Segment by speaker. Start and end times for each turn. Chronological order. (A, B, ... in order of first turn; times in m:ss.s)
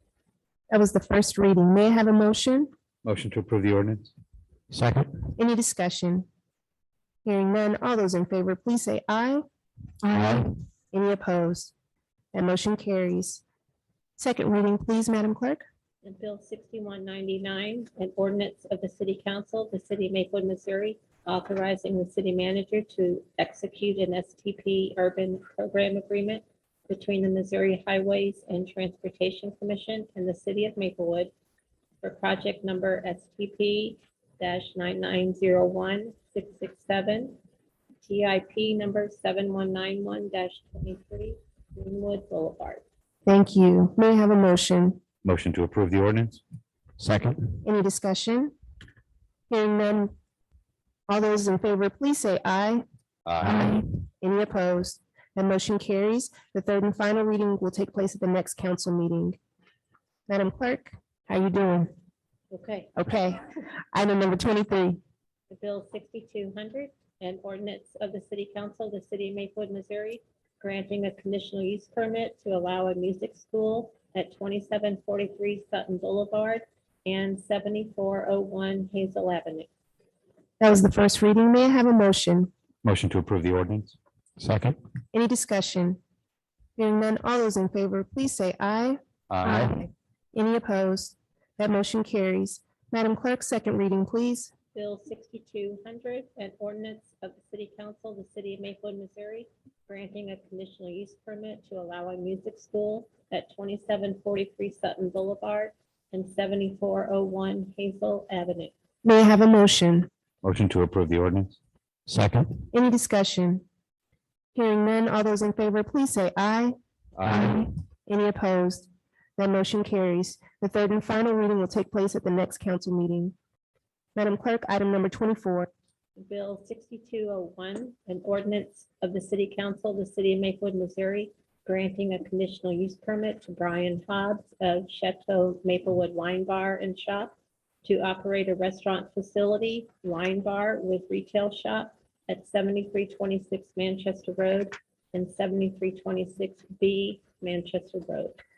0:00.7-0:02.7 A
0:03.0-0:04.1 B
0:04.7-0:05.3 C
0:05.4-0:06.2 A
0:07.2-0:09.4 A
0:10.0-0:10.5 C
0:10.9-0:11.7 A
0:12.3-0:13.4 A
0:14.2-0:15.6 A
0:16.0-0:31.3 D
0:32.0-0:37.4 D
0:38.0-0:42.8 D
0:43.2-0:45.0 A
0:45.2-0:46.4 B
0:47.0-0:47.6 C
0:47.6-0:48.5 A
0:49.5-0:50.1 A
0:51.1-0:52.8 A
0:53.2-0:53.7 B
0:53.4-0:59.4 A
0:53.5-0:53.8 C
1:00.3-1:01.9 A
1:02.5-1:02.9 D
1:03.0-1:05.0 A
1:05.5-1:19.7 D
1:20.6-1:22.5 A
1:22.8-1:24.0 B
1:24.4-1:24.8 C
1:25.1-1:26.0 A
1:26.8-1:29.0 A
1:29.3-1:29.7 B
1:29.4-1:29.9 C
1:29.5-1:34.5 A
1:34.7-1:48.7 D
1:49.0-1:50.1 A
1:50.4-1:51.6 B
1:52.1-1:52.6 C
1:52.7-1:53.6 A
1:54.5-1:56.7 A
1:57.2-1:57.6 B
1:57.2-1:57.6 C
1:58.1-2:03.3 A
2:04.2-2:05.7 A
2:06.2-2:17.3 D
2:17.8-2:28.4 D